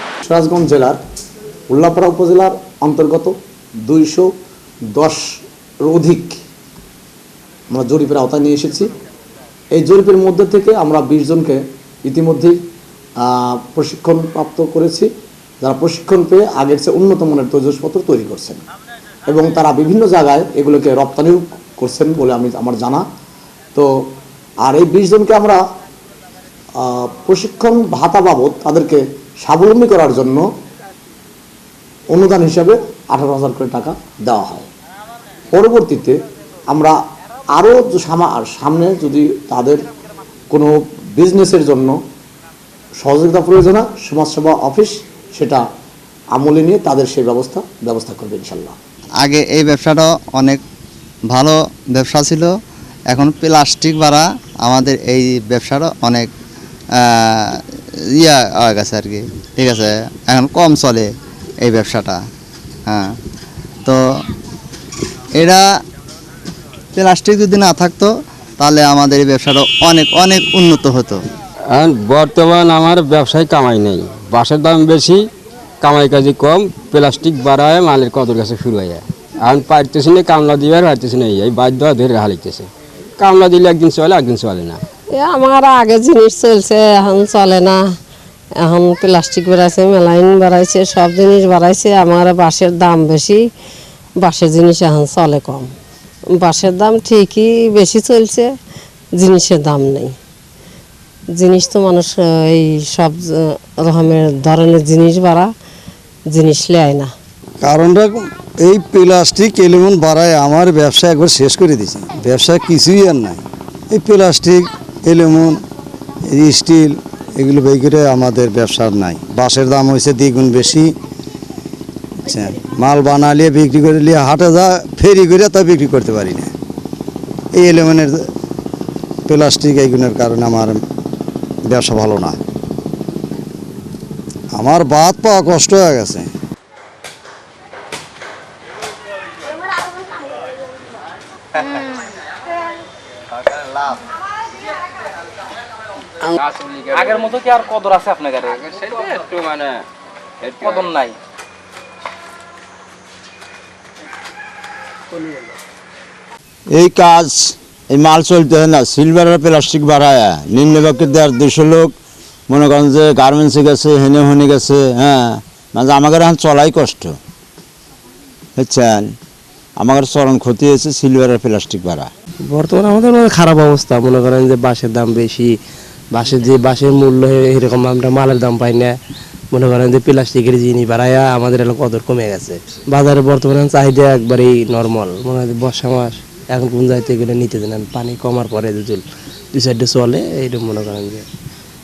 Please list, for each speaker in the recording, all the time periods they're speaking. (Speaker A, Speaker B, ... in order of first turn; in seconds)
Speaker A: 0.2-1.0, 1.7-3.3, 3.9-4.3, 5.0-5.2, 5.8-6.4, 7.7-8.9, 9.7-12.5, 13.2-15.1, 15.6-18.6, 19.3-23.0, 24.6-25.6, 26.8-30.4, 32.1-34.7, 35.5-36.2, 36.7-37.0, 37.6-39.8, 40.5-42.0, 43.0-45.6, 46.4-48.8
Speaker B: 49.2-50.6, 51.3-52.5, 53.1-56.3, 57.0-57.5, 58.2-61.1, 61.6-62.2, 65.3-65.6, 67.0-71.2
Speaker C: 71.7-75.3, 75.8-84.8, 146.3-147.3, 148.4-149.8, 150.4-150.9
Speaker D: 85.1-87.8, 88.6-93.5, 94.2-95.7, 96.3-98.5, 99.1-100.2, 101.3-105.5, 106.3-107.1
Speaker E: 107.6-115.6, 116.3-120.9, 122.2-126.5, 127.5-128.2, 129.3-130.8, 131.7-132.4, 134.5-136.3
Speaker F: 146.9-148.6, 150.6-151.2
Speaker G: 156.7-161.9, 162.5-167.2, 168.6-169.1, 169.8-172.1
Speaker H: 172.5-175.5, 176.1-178.9, 179.5-191.2